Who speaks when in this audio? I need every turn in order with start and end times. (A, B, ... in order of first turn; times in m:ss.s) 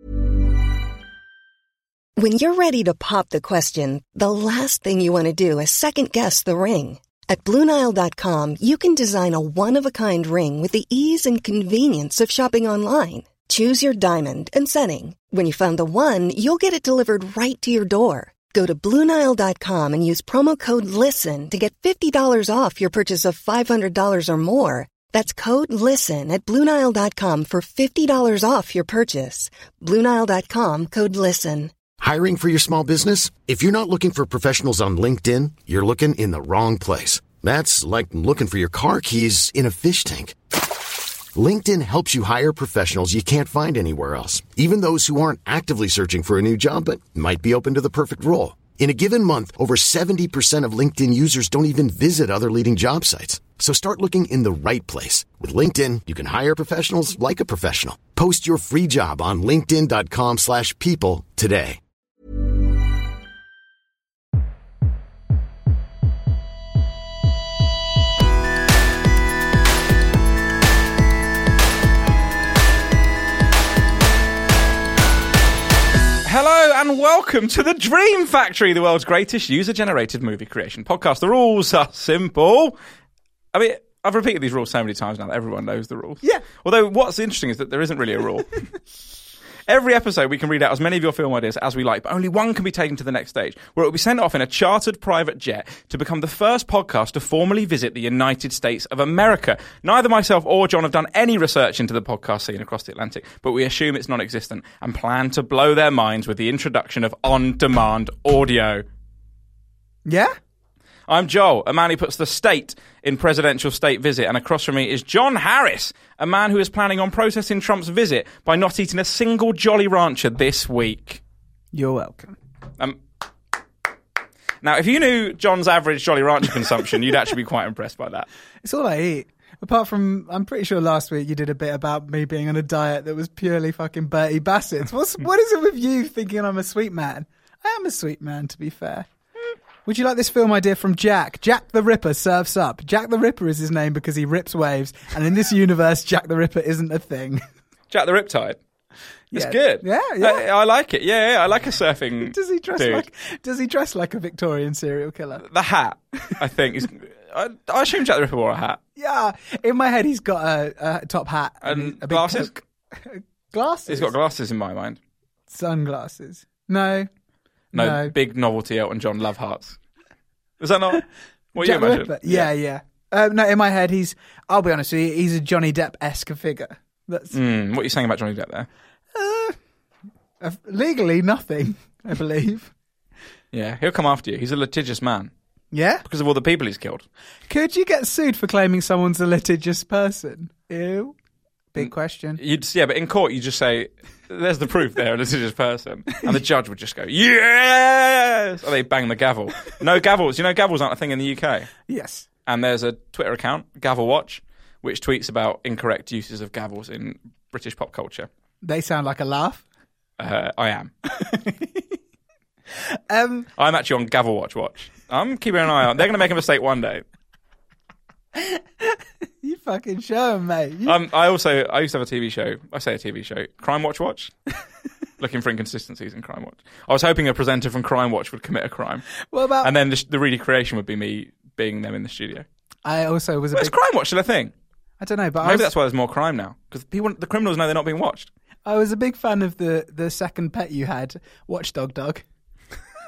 0:02.2-0:31.7 A
0:32.0-0:40.4 B
0:41.3-1:01.8 B
1:16.2-1:22.8 C
1:23.5-1:28.7 C
1:29.7-1:48.8 C
1:50.0-1:50.3 D
1:51.1-2:01.2 C
2:01.7-2:02.3 D
2:04.6-2:08.3 C
2:08.6-2:19.1 D
2:19.8-2:27.4 D
2:27.9-2:28.6 C
2:29.3-2:33.0 C
2:29.3-2:30.4 D
2:32.2-2:35.4 D
2:35.4-2:38.8 C
2:39.0-2:44.1 D
2:41.6-2:42.5 C
2:43.9-2:45.0 C
2:45.5-2:47.1 D
2:47.7-2:48.1 D
2:47.7-2:49.8 C
2:50.6-2:52.5 C
2:51.6-2:57.4 D
2:57.3-2:58.7 C
2:59.1-2:59.6 D
3:00.4-3:02.7 D
3:03.5-3:05.3 C
3:05.7-3:06.0 D
3:06.0-3:07.0 C
3:07.5-3:11.1 D
3:11.7-3:12.4 D
3:11.8-3:21.7 C
3:21.9-3:22.2 D
3:22.4-3:28.3 C
3:28.6-3:29.6 D
3:30.2-3:30.9 C
3:31.1-3:32.0 D
3:32.9-3:33.5 D
3:33.6-3:37.0 C
3:38.3-3:41.0 D
3:40.8-3:44.3 C
3:45.2-3:49.1 C
3:49.2-3:49.7 D
3:49.6-3:52.4 C
3:52.8-3:53.8 D
3:53.5-3:54.5 C
3:55.0-3:55.7 D
3:55.4-3:58.3 C
3:58.6-4:02.2 D